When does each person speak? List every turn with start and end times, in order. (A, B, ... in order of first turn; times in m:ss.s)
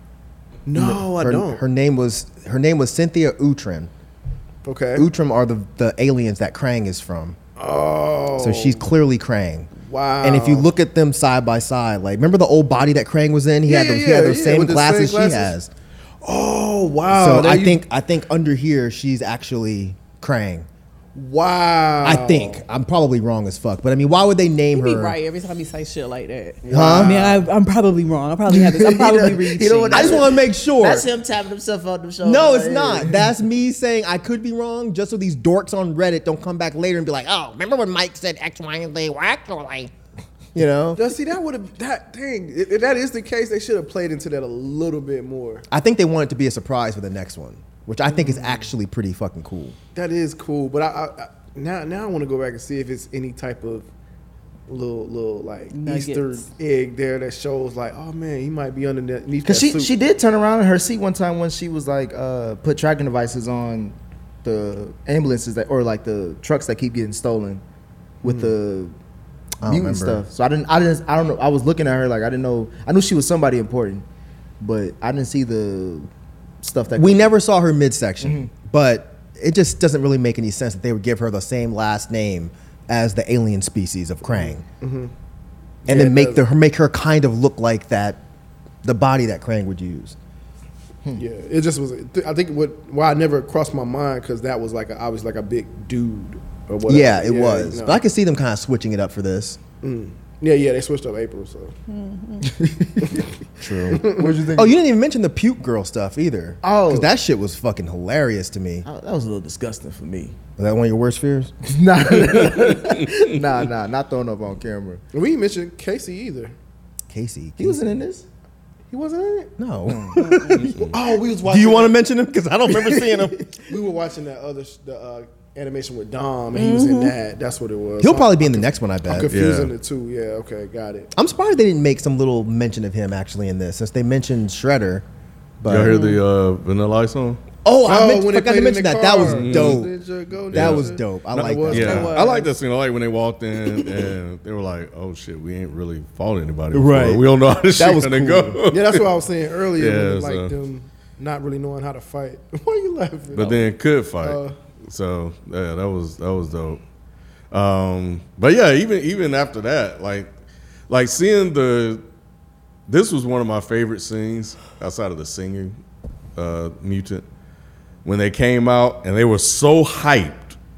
0:00.6-0:01.6 A
0:00.7-0:03.9 B
0:04.6-0:05.1 A
0:05.0-0:07.4 B
0:07.6-0:08.8 A
0:08.4-0:09.7 B
0:09.8-0:10.7 A
0:10.2-0:15.7 B
0:13.6-0:15.5 A
0:16.2-0:17.8 A
0:17.1-0:20.7 B
0:21.1-0:22.6 A
0:22.0-0:25.2 B
0:24.7-0:30.2 C
0:26.6-0:27.4 D
0:26.7-0:27.2 B
0:26.8-0:27.1 A
0:28.5-0:33.2 D
0:29.9-0:31.0 B
0:32.2-0:39.9 B
0:40.5-0:41.0 B
0:41.0-0:45.6 A
0:45.7-0:49.8 B
0:48.2-0:48.7 A
0:49.9-0:53.9 A
0:54.7-0:59.9 A
0:55.7-0:56.5 C
0:59.4-1:07.6 D
1:08.2-1:08.9 D
1:08.2-1:08.5 A
1:09.6-1:10.2 B
1:09.6-1:14.0 D
1:14.6-1:16.1 D
1:16.6-1:17.3 D
1:16.9-1:24.6 B
1:18.2-1:18.5 D
1:24.3-1:25.1 A
1:25.8-1:26.4 A
1:25.9-1:28.2 B
1:28.8-1:30.2 B
1:31.2-1:38.0 A
1:36.8-1:39.6 B
1:39.8-1:41.7 A
1:41.9-1:42.5 C
1:42.5-1:43.2 D
1:43.6-1:48.8 B
1:43.9-1:44.8 D
1:44.0-1:44.3 A
1:46.6-1:47.1 D
1:48.8-1:50.4 D
1:50.6-1:51.5 B
1:51.7-1:55.0 D
1:52.3-1:53.2 E
1:55.1-1:56.5 A
1:57.1-1:58.0 B
1:57.6-1:58.2 D
1:58.9-1:59.5 A
1:59.6-2:03.4 B
1:59.9-2:00.2 D
2:00.2-2:00.6 C
2:00.5-2:00.9 E
2:00.9-2:02.0 A
2:02.7-2:03.6 D
2:03.7-2:11.1 A
2:06.5-2:07.1 C
2:08.0-2:09.4 B
2:09.3-2:09.7 E
2:11.1-2:15.0 B
2:15.6-2:16.0 B
2:15.7-2:17.4 E
2:15.8-2:16.2 C
2:17.6-2:19.9 B
2:17.8-2:22.2 A
2:19.2-2:19.8 E
2:20.5-2:20.9 E
2:20.5-2:22.2 B
2:21.6-2:29.1 E
2:21.7-2:22.5 C
2:26.7-2:28.6 B
2:28.7-2:33.7 A
2:29.8-2:30.5 E
2:33.3-2:36.8 E
2:34.2-2:34.6 A
2:37.5-2:40.3 E
2:40.9-2:42.0 E
2:42.9-2:45.8 E
2:46.4-2:47.2 E
2:48.0-2:50.6 E